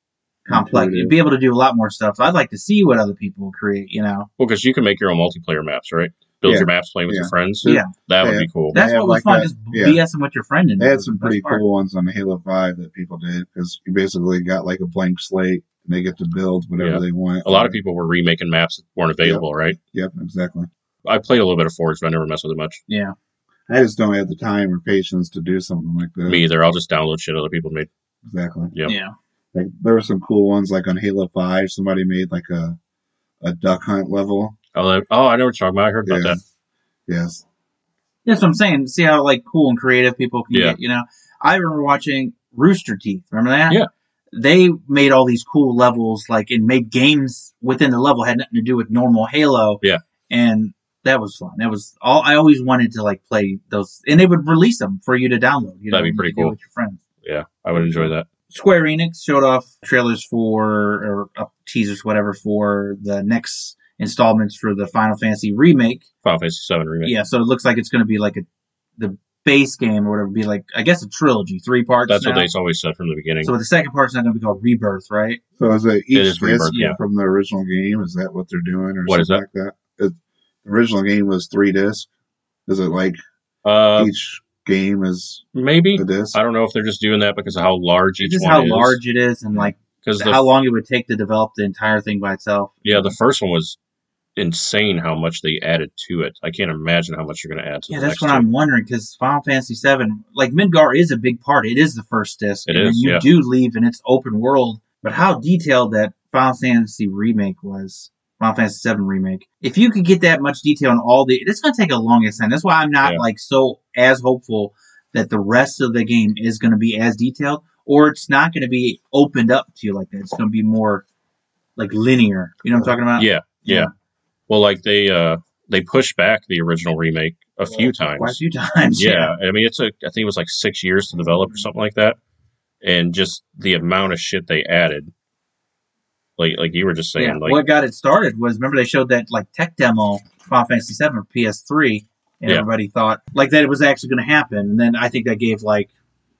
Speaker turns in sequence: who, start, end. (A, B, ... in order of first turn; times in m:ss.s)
0:00.4-0:04.3 A
0:00.5-0:01.2 B
0:04.4-0:08.8 C
0:06.4-0:10.0 B
0:07.6-0:07.9 A
0:08.7-0:11.6 A
0:10.8-0:17.8 B
0:16.8-0:19.8 C
0:19.2-0:20.7 B
0:21.0-0:22.8 C
0:22.9-0:23.1 A
0:23.7-0:26.4 B
0:26.2-0:27.9 C
0:28.2-0:28.7 B
0:28.8-0:29.1 A
0:29.5-0:32.8 B
0:33.4-0:34.6 B
0:34.7-0:36.4 C
0:36.0-0:36.4 B
0:37.1-0:37.4 B
0:38.2-0:43.8 A
0:40.5-0:40.8 C
0:44.3-0:57.0 A
0:55.9-0:56.5 C
0:57.2-0:58.2 C
0:57.7-1:06.0 A
1:06.2-1:07.1 C
1:07.0-1:08.4 A
1:09.0-1:12.5 A
1:12.1-1:13.5 C
1:13.4-1:15.4 A
1:15.6-1:22.1 B
1:16.1-1:17.0 C
1:16.7-1:17.0 A
1:19.0-1:19.4 C
1:22.7-1:23.2 B
1:23.6-1:24.1 C
1:24.0-1:26.4 B
1:25.5-1:29.0 C
1:28.2-1:33.1 A
1:30.0-1:30.4 C
1:32.8-1:33.8 C
1:34.4-1:38.4 C
1:37.9-2:01.0 A
1:42.7-1:43.2 C
2:01.8-2:03.9 A
2:03.2-2:03.9 C
2:04.5-2:08.4 C
2:07.6-2:09.3 A
2:08.9-2:12.2 C
2:12.8-2:15.1 C
2:16.4-2:17.6 C
2:17.2-2:25.9 A